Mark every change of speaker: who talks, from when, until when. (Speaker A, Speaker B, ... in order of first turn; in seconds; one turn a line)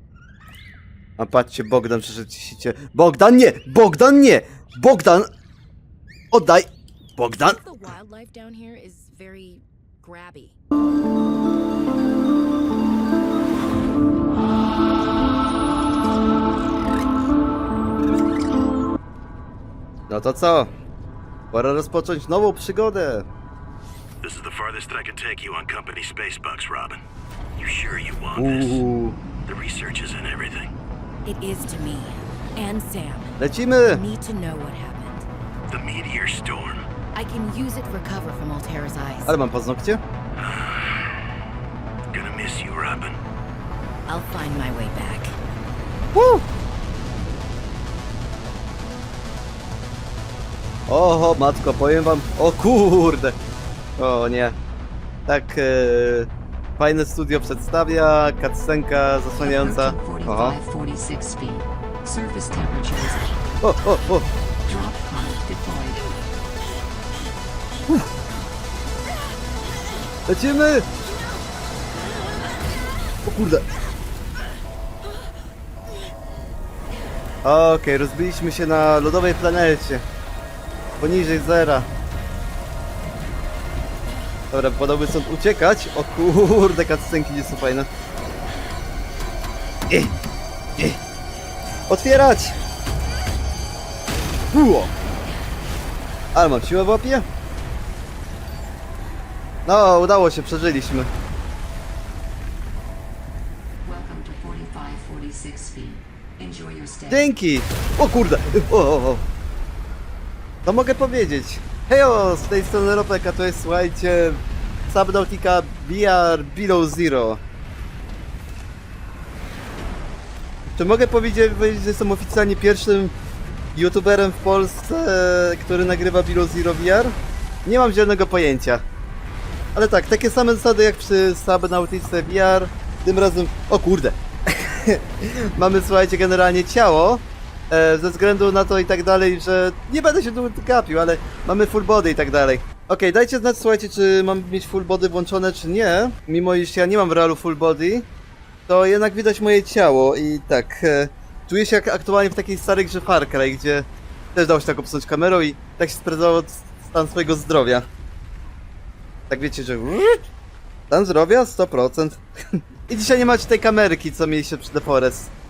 Speaker A: 1.2-5.3
Speaker A: 6.3-7.6
Speaker B: 7.4-10.6
Speaker A: 20.1-20.7
Speaker A: 21.5-23.3
Speaker C: 24.2-27.0
Speaker C: 27.6-28.8
Speaker A: 28.3-29.2
Speaker C: 29.4-30.7
Speaker B: 31.2-35.3
Speaker A: 33.4-34.0
Speaker C: 35.7-36.9
Speaker B: 37.1-39.4
Speaker A: 39.2-40.0
Speaker C: 40.4-41.2
Speaker C: 42.1-43.2
Speaker B: 44.0-45.4
Speaker A: 46.1-46.4
Speaker A: 50.9-53.4
Speaker A: 54.0-54.6
Speaker A: 55.3-60.6
Speaker D: 59.4-63.3
Speaker A: 63.6-64.3
Speaker D: 64.7-66.0
Speaker A: 70.3-70.9
Speaker A: 73.2-73.6
Speaker A: 77.4-80.0
Speaker A: 81.0-81.9
Speaker A: 84.5-87.9
Speaker A: 91.9-92.5
Speaker A: 94.5-94.9
Speaker A: 96.3-97.2
Speaker A: 99.7-101.1
Speaker D: 103.8-107.2
Speaker A: 107.1-109.2
Speaker A: 110.7-117.4
Speaker A: 120.8-123.1
Speaker A: 123.7-127.1
Speaker A: 127.6-128.8
Speaker A: 129.7-148.1
Speaker A: 148.7-157.9
Speaker A: 159.3-160.2
Speaker A: 160.9-162.2
Speaker A: 162.9-165.3